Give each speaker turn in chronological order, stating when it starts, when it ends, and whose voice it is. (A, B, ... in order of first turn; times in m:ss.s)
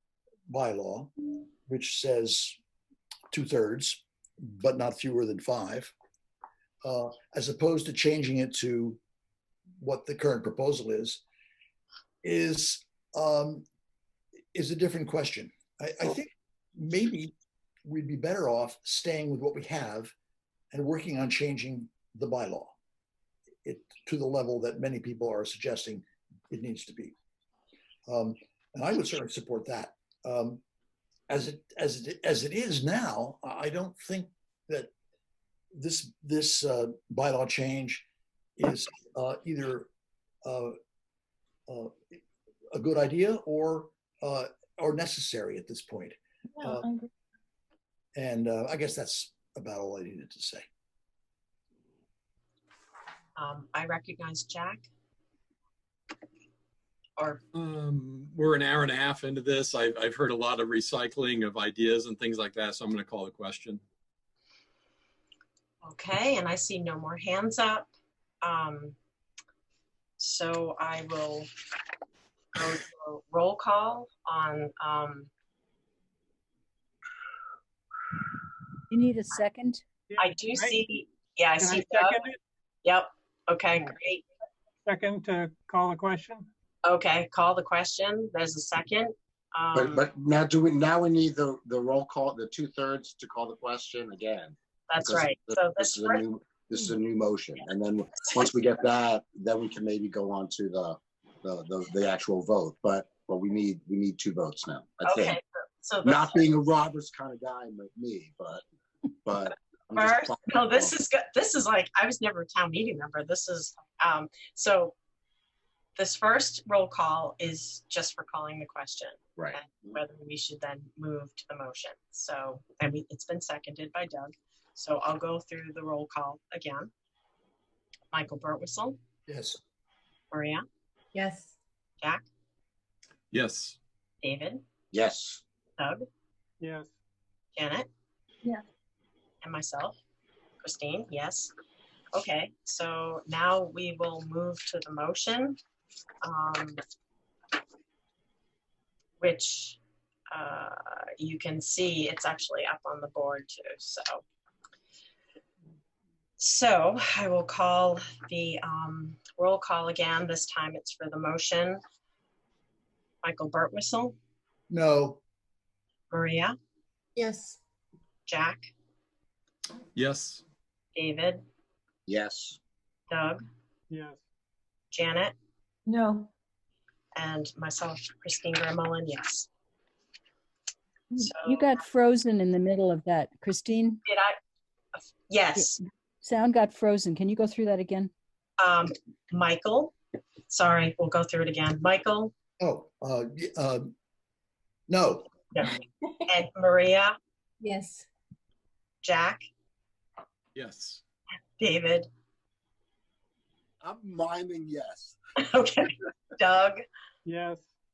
0:00.5-0:01.1 A
0:01.7-0:02.6 A
0:03.3-0:05.9 A
0:06.8-0:09.0 A
0:09.8-0:11.2 A
0:12.2-0:13.7 A
0:14.5-0:17.3 A
0:17.9-0:20.1 A
0:20.7-0:22.7 A
0:23.6-0:27.1 A
0:28.1-0:30.6 A
0:31.3-0:34.9 A
0:35.8-0:38.1 A
0:38.6-0:39.9 A
0:40.4-0:40.8 A
0:41.7-0:42.2 A
0:42.7-0:46.9 A
0:46.6-0:47.1 B
0:48.2-0:50.7 A
0:53.4-0:54.9 C
0:57.5-1:03.8 D
1:05.8-1:07.9 C
1:08.4-1:09.0 C
1:10.2-1:11.5 C
1:12.6-1:15.3 C
1:18.9-1:19.8 E
1:20.1-1:20.9 F
1:20.2-1:22.3 C
1:21.6-1:22.4 F
1:22.8-1:24.2 C
1:24.9-1:26.5 F
1:26.8-1:30.1 C
1:29.7-1:45.4 G
1:34.9-1:36.2 C
1:45.1-1:46.5 C
1:46.0-1:48.6 G
1:49.2-1:51.0 G
1:50.0-1:54.9 C
1:56.0-2:06.9 C
1:59.4-2:00.0 G
2:08.1-2:09.0 C
2:09.3-2:09.6 A
2:10.3-2:10.6 C
2:11.1-2:11.6 B
2:13.3-2:13.8 D
2:14.2-2:14.6 C
2:14.9-2:15.4 G
2:15.8-2:16.0 C
2:16.6-2:16.9 F
2:17.6-2:17.9 C
2:19.4-2:20.0 C
2:20.6-2:21.5 C
2:22.1-2:25.6 C
2:26.2-2:26.8 C
2:29.2-2:29.8 C
2:30.3-2:34.2 C
2:36.4-2:41.8 C
2:43.2-2:44.2 C
2:44.7-2:45.2 A
2:46.1-2:46.6 C
2:47.2-2:47.6 B
2:48.3-2:48.7 C
2:50.0-2:50.4 D
2:51.0-2:51.4 C
2:52.1-2:52.6 G
2:53.1-2:53.4 C
2:53.9-2:54.2 F
2:54.9-2:55.3 C
2:55.9-2:56.3 B
2:57.2-2:59.5 C
3:01.2-3:04.0 E
3:01.2-3:01.8 C
3:04.1-3:04.4 C
3:05.3-3:05.8 C
3:05.6-3:08.1 E
3:08.6-3:09.9 C
3:10.5-3:12.3 C
3:12.6-3:13.9 A
3:14.9-3:15.3 A
3:15.5-3:17.1 C
3:17.6-3:18.1 B
3:19.0-3:19.5 C
3:20.6-3:21.0 D
3:21.6-3:22.1 C
3:23.8-3:25.2 G
3:25.4-3:26.8 C
3:27.2-3:27.7 F